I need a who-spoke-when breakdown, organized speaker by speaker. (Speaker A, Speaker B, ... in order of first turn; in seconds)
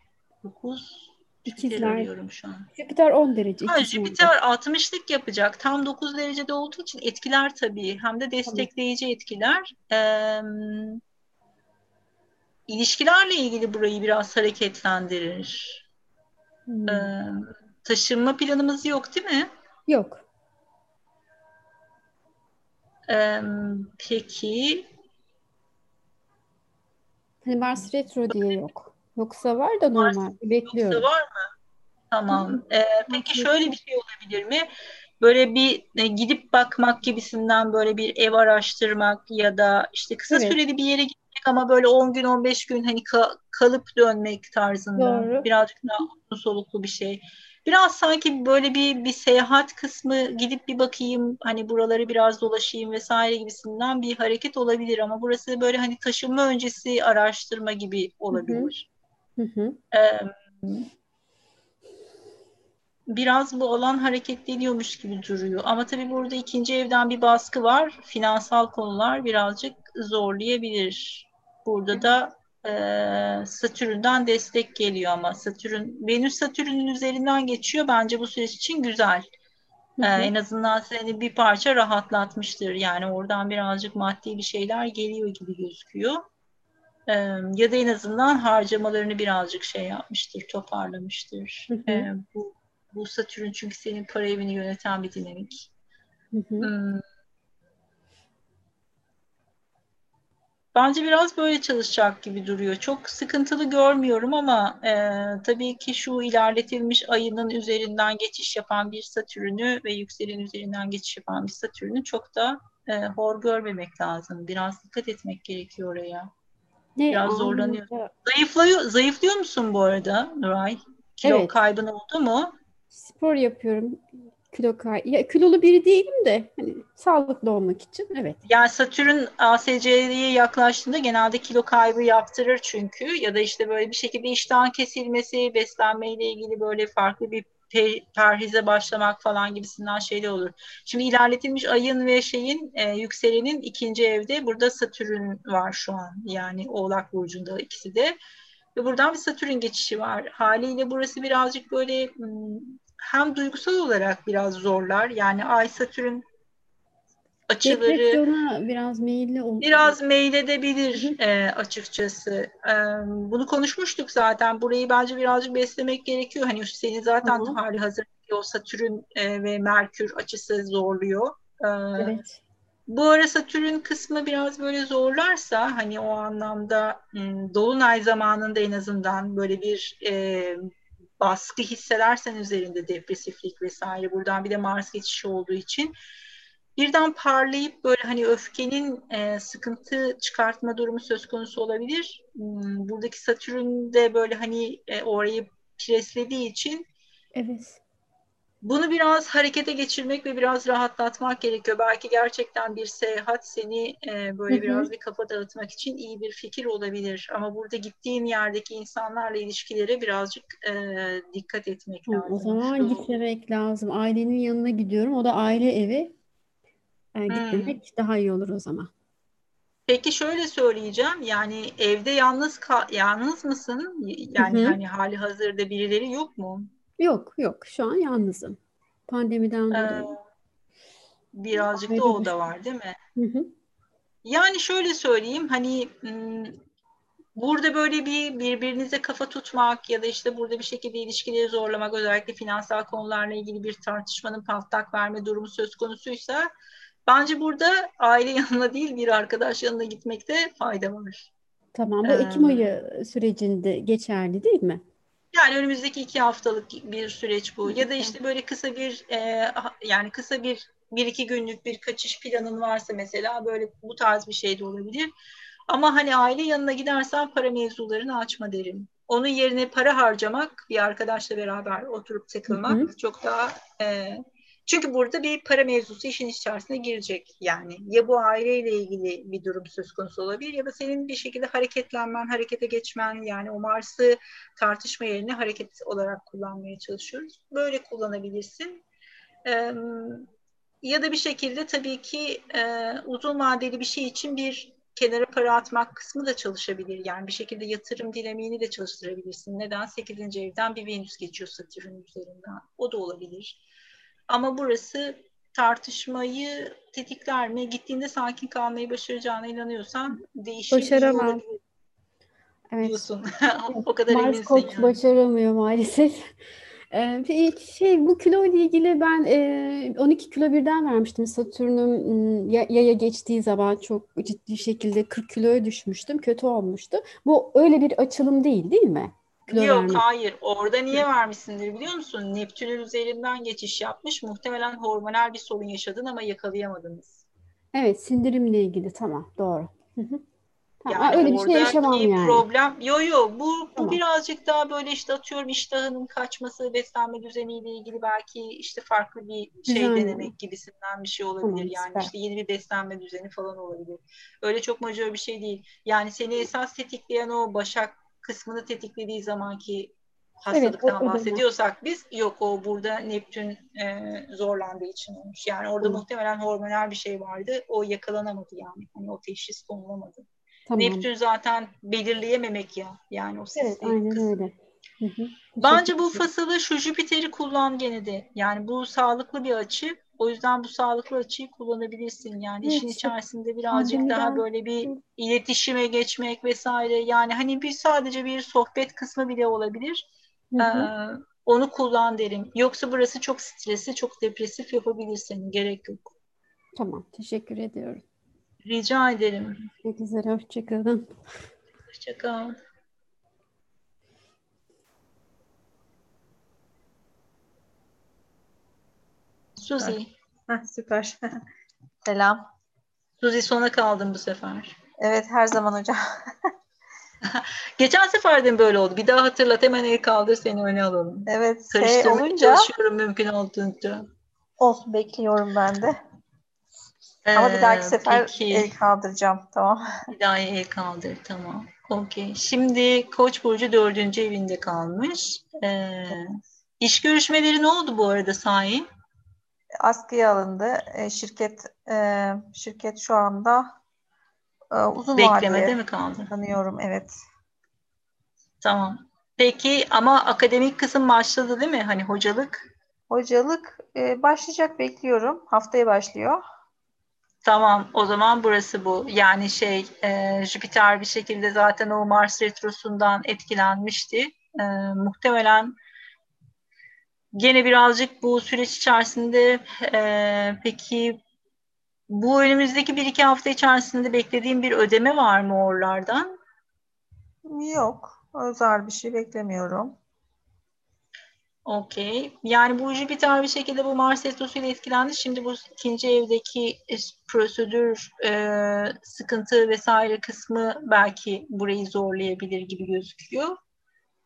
Speaker A: 0.4-2.7, 3.6-11.0, 12.7-15.8, 16.9-19.5, 23.1-24.9, 27.8-28.6, 29.9-31.5, 32.1-34.7, 35.2-58.9, 59.9-60.8, 63.1-79.3, 80.0-86.2, 87.1-95.7, 96.6-97.0, 100.7-116.3, 117.1-122.5, 128.4-148.2, 148.7-156.2, 157.5-158.2, 159.6-172.2, 172.9-180.6, 181.2-185.9, 186.8-196.8, 198.6-213.1, 217.3-217.8, 219.9-226.7, 229.7-230.2, 231.3-232.9, 234.3-236.6, 237.3-246.5, 247.1-251.3, 252.0-252.7, 255.3-265.1, 265.7-288.8, 289.4-290.3, 290.8-303.6, 304.3-311.6, 312.8-315.0, 329.5-337.2, 340.9-374.3, 375.6-390.1, 390.6-396.1, 398.6-399.6, 401.9-402.6, 409.6-410.1, 413.2-414.8, 417.3-424.1, 427.3-428.7, 430.1-436.2, 436.8-438.9, 445.2-446.3, 448.6-452.7, 457.4-465.7, 467.4-471.2, 472.1-476.4, 481.6-493.6
Speaker B: 1.4-2.1, 2.7-4.3, 16.7-17.1, 19.9-20.2, 27.4-31.1, 33.1-33.8, 40.3-40.6, 45.0-45.5, 58.3-58.7, 59.4-59.8, 80.0-80.3, 91.7-92.1, 96.3-96.7, 117.0-118.1, 121.2-121.5, 122.9-128.4, 157.6-159.9, 167.2-167.6, 172.0-172.4, 197.3-197.8, 204.5-204.9, 212.1-216.1, 217.1-218.9, 224.4-224.8, 227.0-230.1, 231.5-232.4, 233.2-233.5, 251.7-254.8, 257.6-258.1, 272.5-272.9, 310.7-311.4, 312.7-313.1, 313.7-316.3, 316.9-330.0, 337.7-340.2, 340.8-342.4, 349.7-350.3, 351.4-352.1, 360.5-361.4, 370.7-371.1, 373.6-376.2, 382.6-383.1, 383.7-385.0, 390.5-390.9, 396.7-398.0, 399.8-401.1
Speaker C: 410.5-411.3, 412.0-412.4, 415.0-416.3, 421.3-422.7, 424.6-425.9, 427.3-429.8, 439.8-443.7, 444.7-445.8, 446.3-447.1, 453.1-456.4, 477.5-480.0